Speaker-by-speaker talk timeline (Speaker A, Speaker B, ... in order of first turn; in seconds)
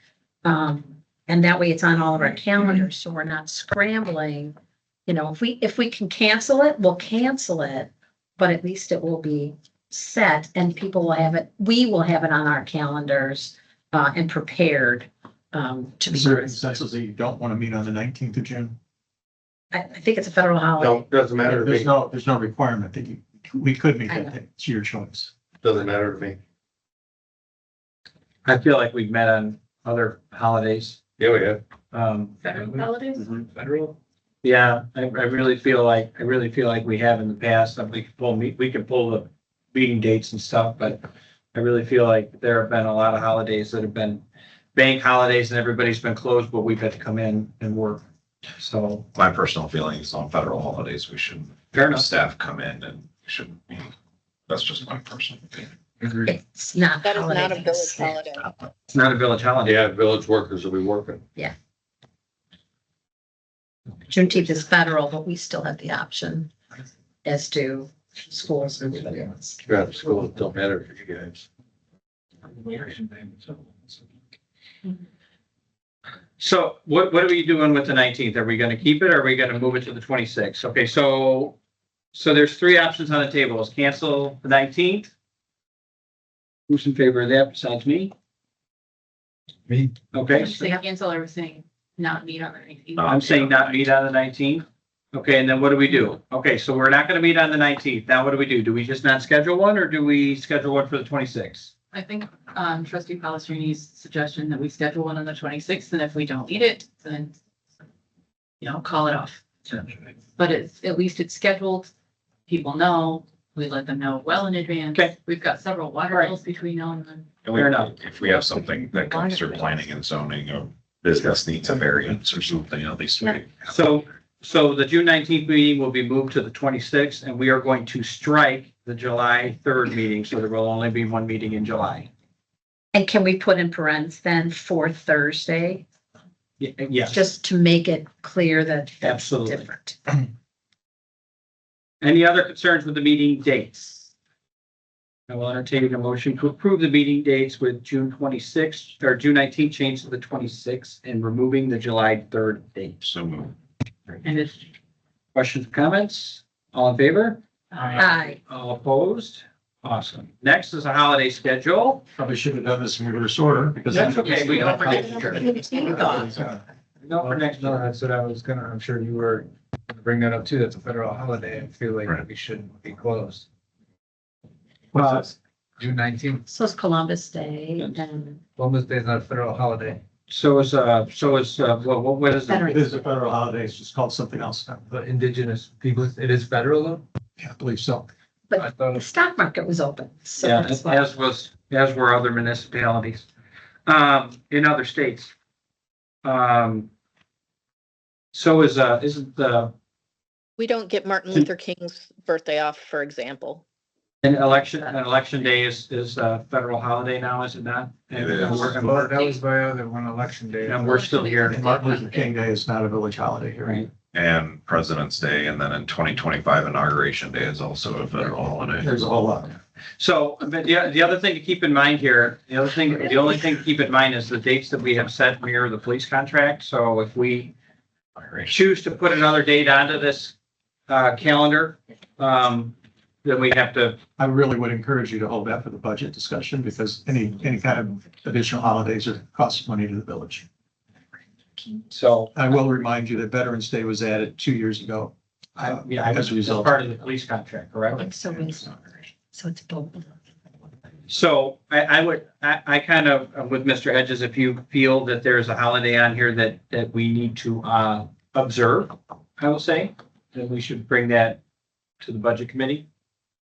Speaker A: 0.4-4.5, 5.1-16.6, 19.7-21.0, 24.1-24.3, 56.2-58.1, 64.1-66.5, 67.2-69.6, 119.1-119.4, 132.9-135.9, 137.1-140.0, 158.0-158.4, 165.0-166.3, 176.5-178.4, 182.5-183.0, 188.5-191.1, 248.0-248.7, 249.3-250.1
Speaker B: 16.1-18.8, 21.4-25.3, 162.1-166.6, 182.7-184.9, 187.4-188.1, 211.4-213.9, 218.8-219.6, 234.2-240.4, 242.3-246.8
Speaker C: 20.8-21.9, 25.6-26.4, 31.2-31.6, 59.6-61.2, 69.7-71.5
Speaker D: 28.4-31.0, 31.9-32.4, 34.4-41.0, 41.5-44.2, 44.8-48.0, 48.6-49.1, 51.7-52.1, 58.9-59.8, 72.7-73.1, 76.4-81.6, 82.1-85.1, 86.7-88.1, 90.1-90.7, 93.0-101.7, 117.5-117.9, 123.7-132.1, 136.6-137.2, 139.0-139.7, 142.0-144.1, 145.3-153.0, 155.3-162.0, 163.9-165.4, 167.1-167.8, 174.9-175.3, 180.3-182.7, 190.4-193.3, 193.9-195.3, 196.2-196.9, 198.3-199.7, 204.2-209.3, 210.7-211.6, 213.6-213.9, 220.0-227.5, 228.5-230.3, 230.9-234.0, 241.9-242.3, 245.6-248.1, 251.1-261.4, 262.0-262.9
Speaker E: 32.4-33.8, 90.3-93.3, 101.9-107.3, 108.6-109.5, 110.3-111.9, 112.5-117.3, 154.2-154.7, 168.1-168.4, 178.9-179.7, 210.8-211.2
Speaker F: 32.6-32.9, 33.6-34.0, 167.2-173.4, 175.8-176.4, 178.6-178.9, 179.4-180.0, 184.9-187.0, 188.6-189.0, 208.5-211.4
Speaker G: 49.1-53.9, 54.5-55.7, 93.0-93.6, 117.4-123.8, 153.0-153.5, 208.1-208.8, 214.1-219.0
Speaker H: 57.0-58.5, 200.6-203.6